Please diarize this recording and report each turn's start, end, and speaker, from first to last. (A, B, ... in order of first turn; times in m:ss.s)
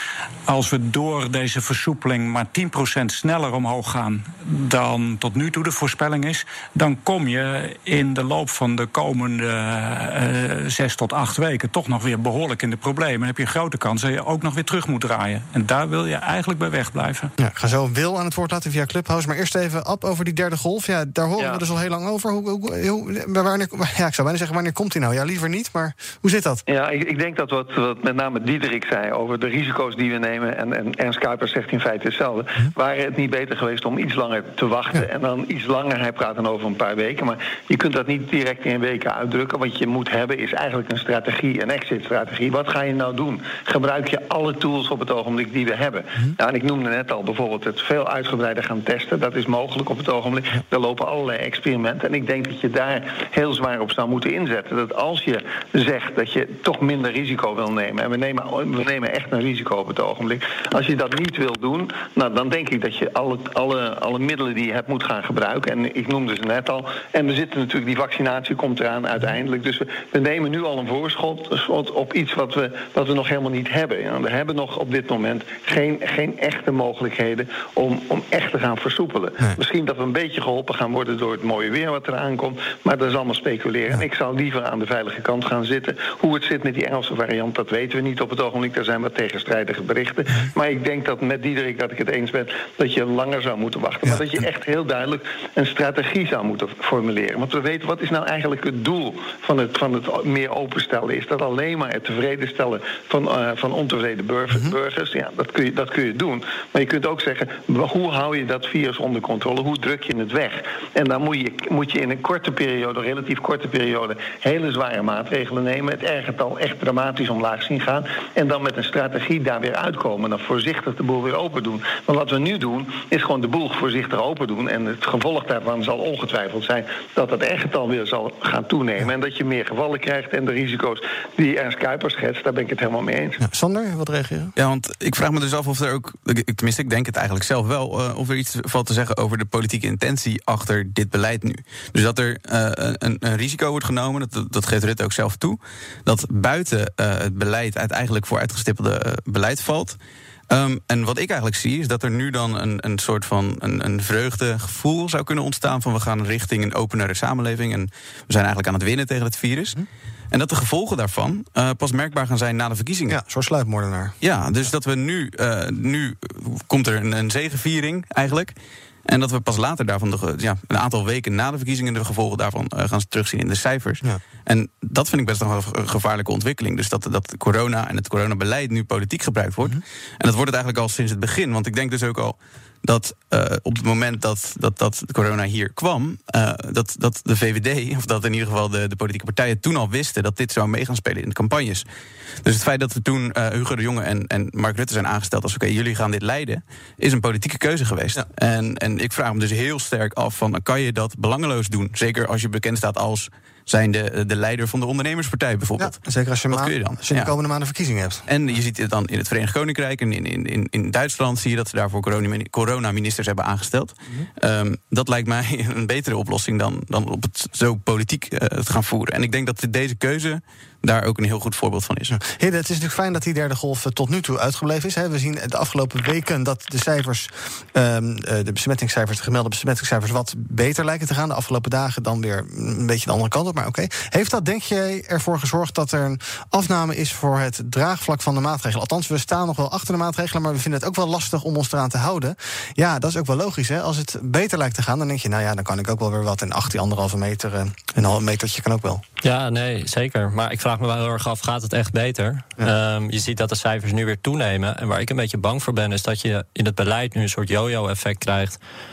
0:00.4-0:17.3 A
0:17.4-0:26.6 B
0:26.7-2:13.4 C
2:13.4-2:14.5 B
2:14.6-2:30.0 D
2:30.5-2:39.8 D
2:40.3-2:43.2 D
2:43.1-2:44.1 B
2:44.2-2:48.5 D
2:49.0-3:11.8 D
3:12.4-3:26.0 D
3:25.8-3:28.2 B
3:26.5-3:27.3 D
3:28.3-3:42.1 D
3:42.1-4:09.0 B
4:09.2-4:18.6 E